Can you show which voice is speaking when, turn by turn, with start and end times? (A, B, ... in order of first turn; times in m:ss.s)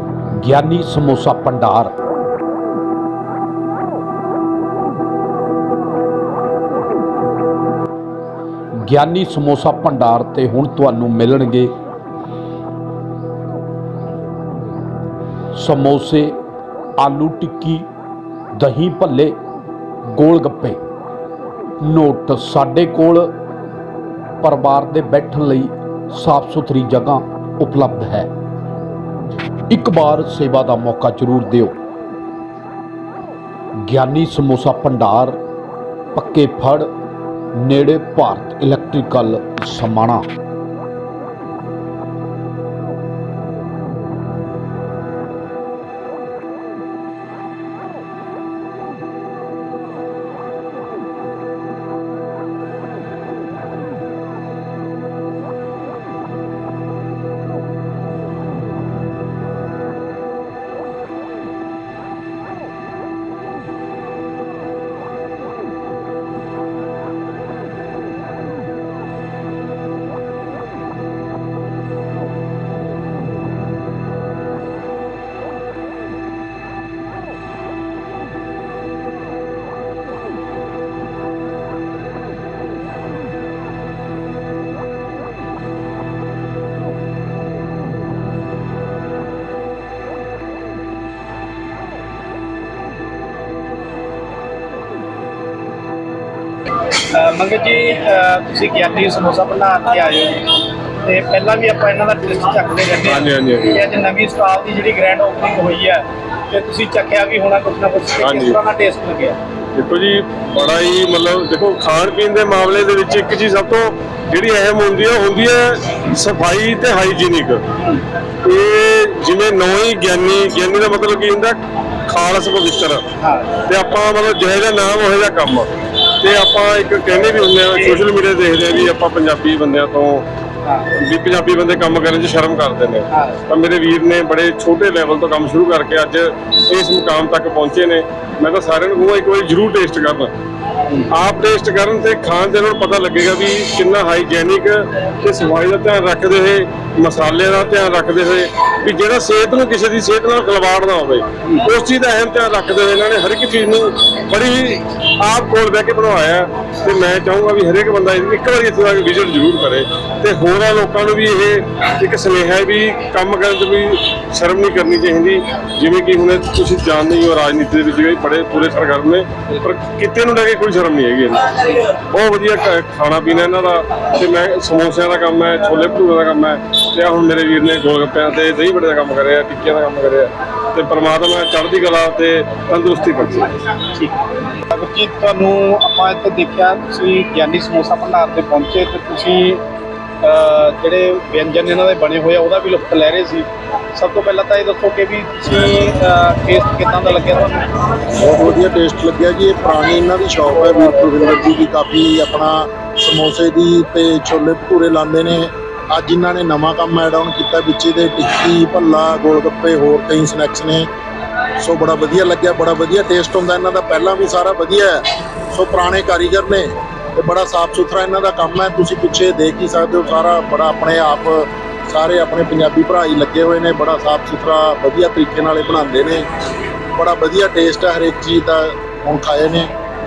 0:00.4-0:01.9 A
0:08.8-0:11.7 A
0:15.5-0:16.3 A
0:17.0-0:17.8 A
0:18.6-0:19.4 A
0:20.1-0:20.8 A
0:21.8-0:23.3 A
0:24.4-0:28.3 A
0:29.7-0:31.7 A
0:33.9-0:35.4 A
0:36.1-0:36.9 A
0:37.6-0:40.2 A
1:37.1-1:40.4 B
1:41.0-1:49.4 B
1:43.0-1:43.8 C
1:48.2-1:48.6 C
1:49.8-1:57.6 C
1:58.4-2:03.0 C
2:03.2-2:03.5 B
2:03.6-2:10.2 C
2:07.7-2:08.0 B
2:10.9-2:20.3 C
2:13.1-2:13.4 B
2:21.1-3:03.5 C
3:04.7-3:09.6 B
3:10.2-3:17.6 B
3:18.2-3:30.9 D
3:31.6-3:46.2 D
3:47.0-3:49.7 D